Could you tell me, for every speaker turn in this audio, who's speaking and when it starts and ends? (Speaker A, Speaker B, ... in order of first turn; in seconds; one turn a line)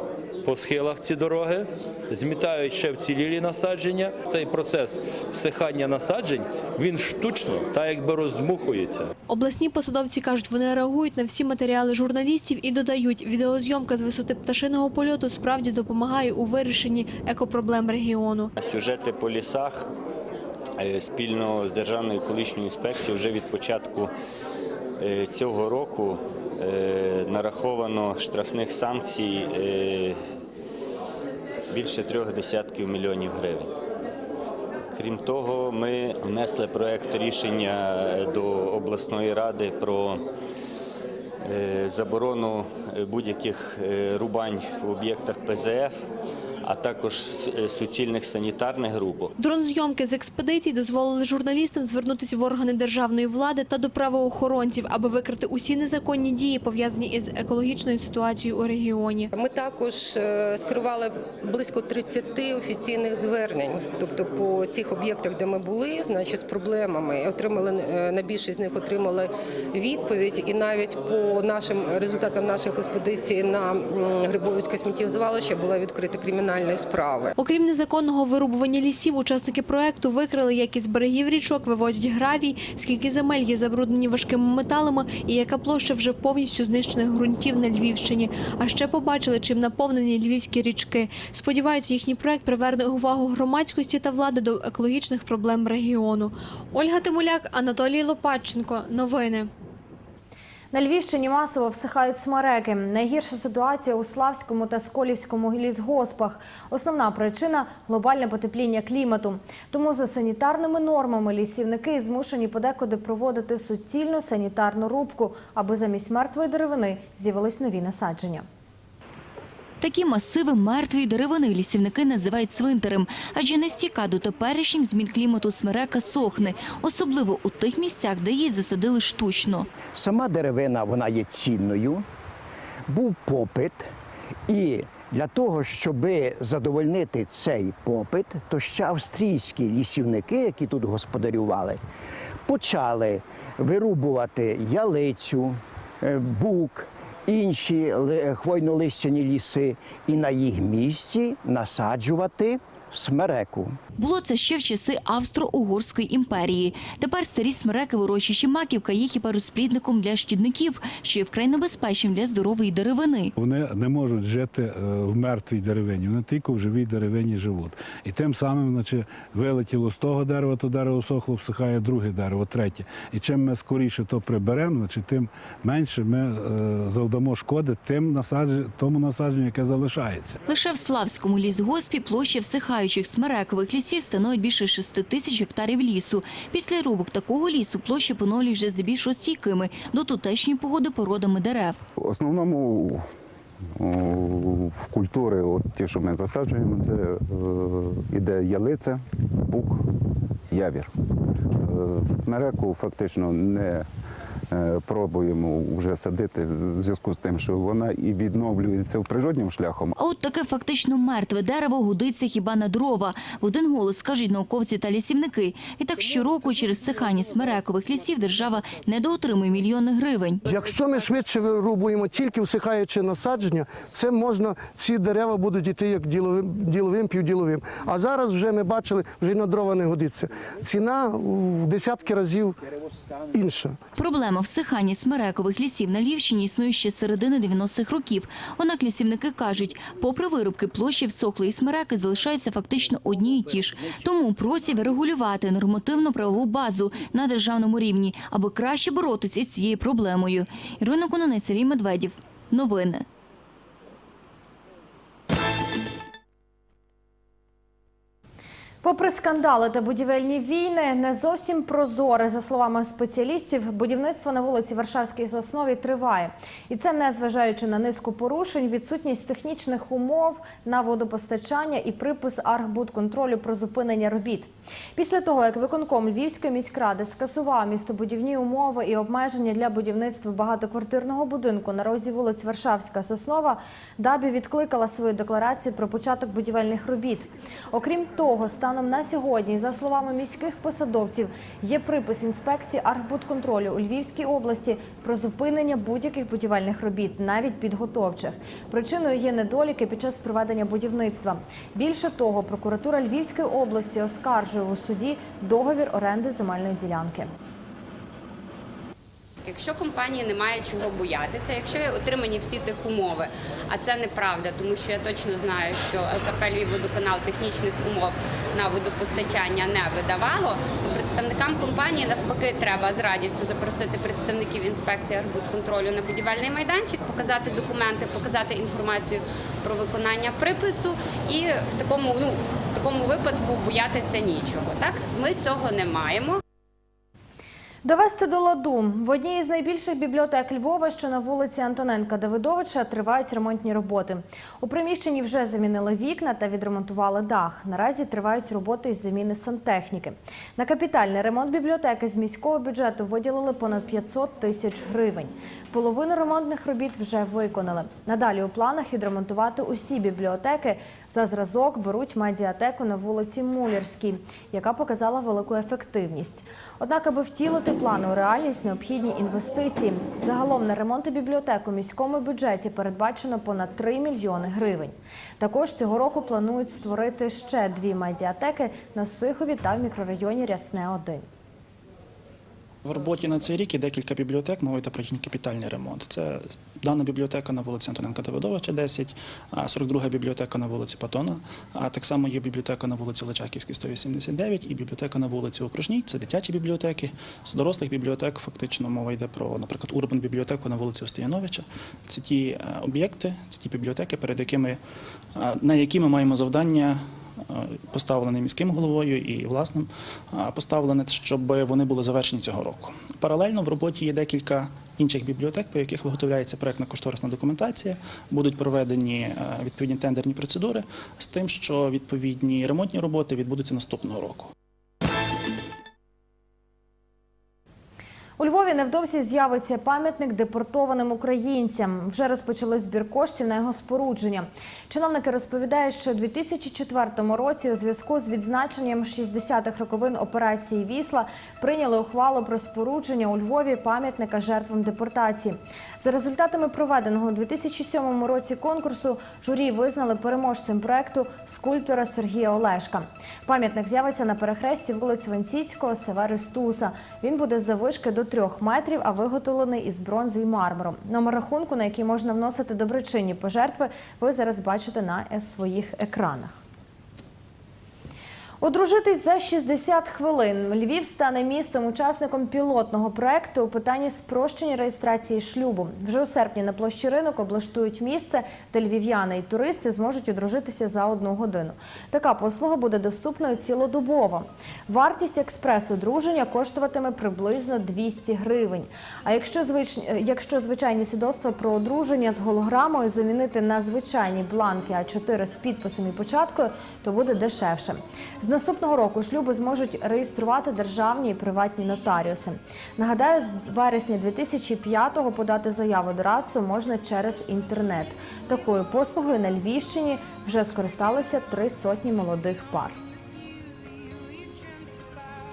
Speaker A: 0.4-9.1
Speaker B: 9.3-18.5
Speaker C: 18.6-19.8
Speaker C: 20.8-24.1
Speaker D: 21.1-24.0
Speaker D: 25.1-30.1
Speaker C: 29.0-29.7
Speaker D: 31.7-33.7
Speaker D: 35.2-40.1
Speaker C: 36.3-37.3
Speaker C: 38.3-40.1
Speaker C: 41.5-45.9
Speaker D: 41.7-42.6
Speaker D: 43.2-44.8
Speaker C: 46.6-49.3
Speaker B: 49.4-59.3
Speaker E: 59.4-77.2
Speaker B: 77.4-99.5
Speaker F: 100.7-118.4
Speaker G: 119.8-129.7
Speaker H: 129.9-132.1
Speaker H: 132.9-133.9
Speaker H: 134.5-141.8
Speaker H: 142.4-153.8
Speaker G: 154.0-163.3
Speaker I: 163.3-180.4
Speaker G: 180.5-191.8
Speaker J: 192.0-193.0
Speaker J: 193.8-199.9
Speaker J: 200.5-203.9
Speaker J: 204.5-209.9
Speaker G: 210.0-220.4
Speaker K: 220.4-232.6
Speaker K: 233.3-233.8
Speaker G: 233.9-253.0
Speaker F: 258.8-307.3
Speaker L: 309.4-336.4
Speaker F: 337.8-381.2
Speaker C: 382.8-404.8
Speaker C: 405.3-424.5
Speaker F: 428.4-466.6
Speaker F: 468.6-513.0